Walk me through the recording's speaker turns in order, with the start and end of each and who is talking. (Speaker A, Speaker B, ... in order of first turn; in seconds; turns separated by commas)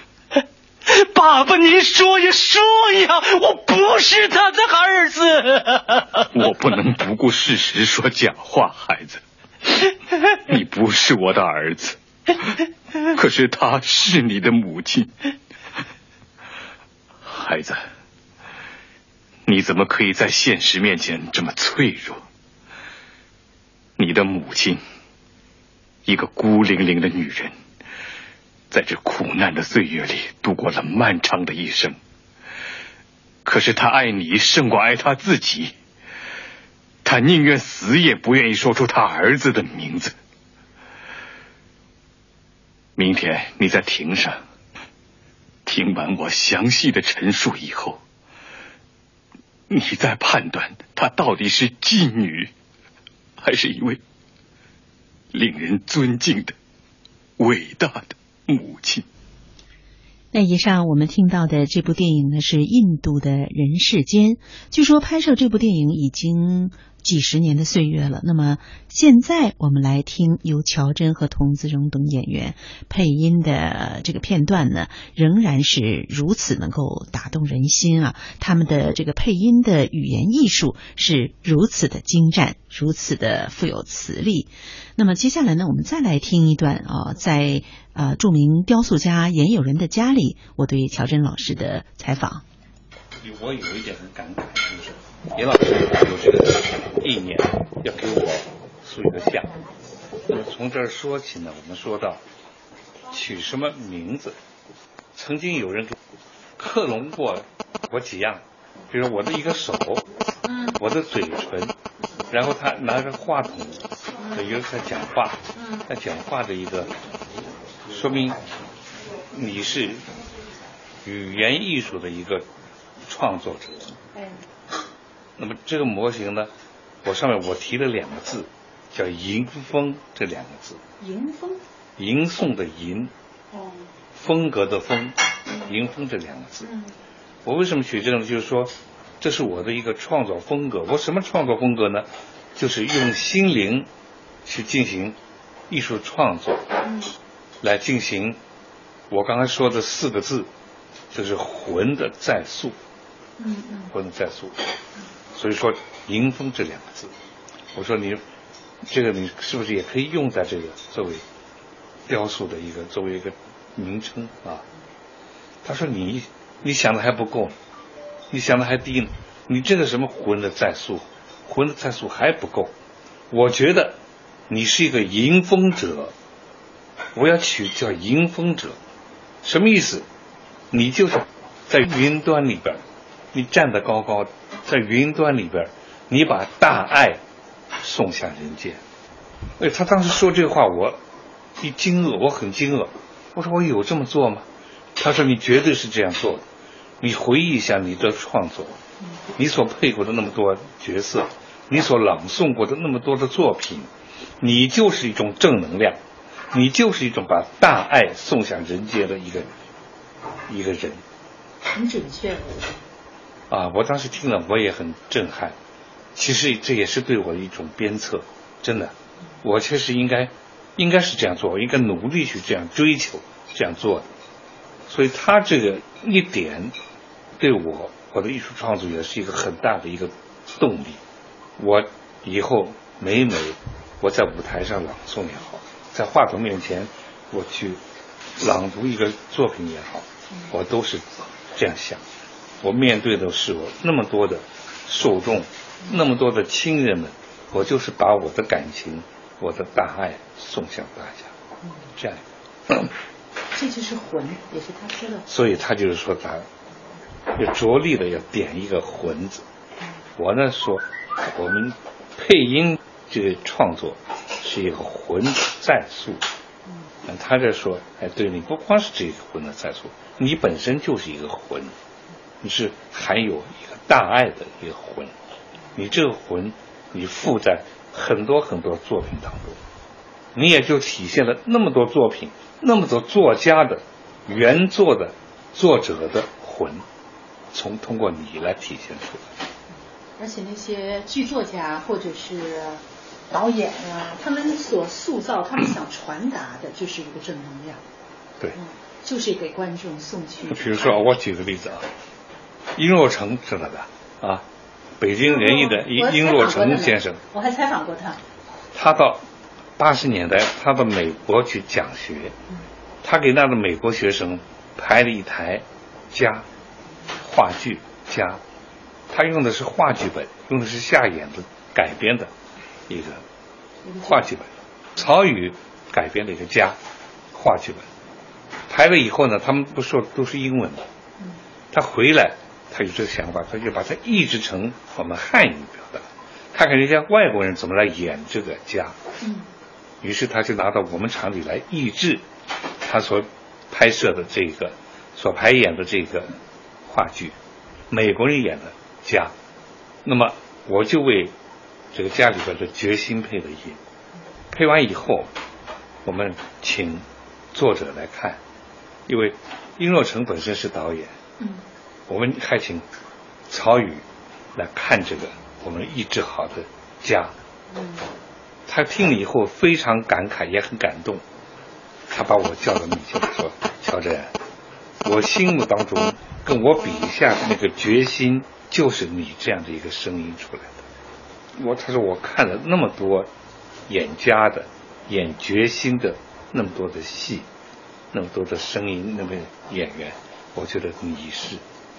Speaker A: 0.9-6.2, Speaker B: 6.3-9.2, Speaker B: 10.5-12.0, Speaker B: 13.2-15.1, Speaker B: 17.2-17.8, Speaker B: 19.5-22.2, Speaker B: 24.0-24.8, Speaker B: 26.1-27.6, Speaker B: 28.7-32.0, Speaker B: 33.5-35.7, Speaker B: 37.0-40.1, Speaker B: 43.0-44.4, Speaker B: 45.7-48.0, Speaker B: 49.7-52.5, Speaker B: 53.4-54.0, Speaker B: 55.3-56.5, Speaker B: 57.4-59.1, Speaker C: 60.3-92.4, Speaker D: 93.2-99.6, Speaker D: 100.3-102.2, Speaker D: 103.1-104.4, Speaker D: 105.2-106.0, Speaker D: 106.6-110.1, Speaker E: 110.5-110.8, Speaker D: 110.8-111.8, Speaker D: 112.3-116.9, Speaker E: 115.6-115.9, Speaker D: 117.9-118.4, Speaker D: 119.3-120.0, Speaker D: 121.0-122.5, Speaker D: 123.1-124.0, Speaker E: 124.2-124.4, Speaker D: 125.4-126.5, Speaker D: 127.0-130.8, Speaker E: 131.0-131.6, Speaker D: 132.0-133.1, Speaker E: 133.5-133.9, Speaker D: 134.2-136.7, Speaker E: 136.6-136.9, Speaker D: 137.4-143.9, Speaker D: 144.5-145.2, Speaker D: 145.7-146.7, Speaker E: 146.8-147.1, Speaker D: 147.6-148.4, Speaker D: 149.1-150.5, Speaker D: 151.1-152.8, Speaker E: 153.4-153.9, Speaker D: 153.9-154.6, Speaker D: 155.3-157.1, Speaker D: 157.8-158.2, Speaker D: 158.8-161.2, Speaker D: 162.1-164.6, Speaker D: 165.6-167.6, Speaker D: 168.3-172.7, Speaker D: 173.3-174.0, Speaker D: 174.5-176.1, Speaker D: 177.2-178.8, Speaker D: 179.4-180.1, Speaker D: 180.7-182.8, Speaker D: 183.3-187.2, Speaker D: 187.8-188.8, Speaker D: 189.6-191.0, Speaker D: 191.6-194.5, Speaker D: 195.0-196.4, Speaker D: 197.0-198.8, Speaker D: 199.4-203.9, Speaker D: 204.4-206.0, Speaker D: 206.5-209.5, Speaker D: 210.5-211.0, Speaker E: 211.8-212.8, Speaker D: 213.5-215.6, Speaker D: 216.2-224.1, Speaker D: 224.9-226.8, Speaker D: 227.4-231.0, Speaker D: 231.6-237.8, Speaker D: 238.4-242.0, Speaker D: 242.6-251.3, Speaker D: 252.0-252.9, Speaker E: 253.5-255.3, Speaker D: 255.3-256.5, Speaker D: 257.4-259.4, Speaker D: 260.2-266.2, Speaker D: 267.1-271.7, Speaker D: 272.4-275.1, Speaker D: 275.8-279.6, Speaker D: 280.3-286.9, Speaker D: 287.5-289.3, Speaker E: 290.2-297.8, Speaker E: 298.6-301.0, Speaker D: 300.5-301.9, Speaker D: 302.8-304.4, Speaker D: 305.0-307.2, Speaker E: 305.2-308.2, Speaker D: 308.7-309.2, Speaker D: 309.8-312.4, Speaker D: 313.0-316.4, Speaker D: 317.2-318.4, Speaker D: 319.1-322.3, Speaker D: 322.9-323.2, Speaker E: 323.9-324.2, Speaker D: 324.0-326.8, Speaker D: 327.3-327.9, Speaker D: 328.7-330.9, Speaker D: 331.7-339.0, Speaker E: 339.2-339.5, Speaker D: 340.0-342.2, Speaker D: 342.8-346.4, Speaker D: 346.9-347.4, Speaker D: 347.9-349.3, Speaker D: 350.1-351.3, Speaker D: 351.9-353.8, Speaker D: 354.5-355.3, Speaker D: 356.0-358.4, Speaker D: 359.1-361.1, Speaker D: 362.1-362.9, Speaker D: 363.5-364.0, Speaker D: 364.6-367.3, Speaker E: 367.7-368.1, Speaker D: 368.7-371.2, Speaker D: 372.1-374.3, Speaker D: 375.0-380.8, Speaker D: 381.6-383.3, Speaker D: 383.9-387.5, Speaker D: 388.1-391.6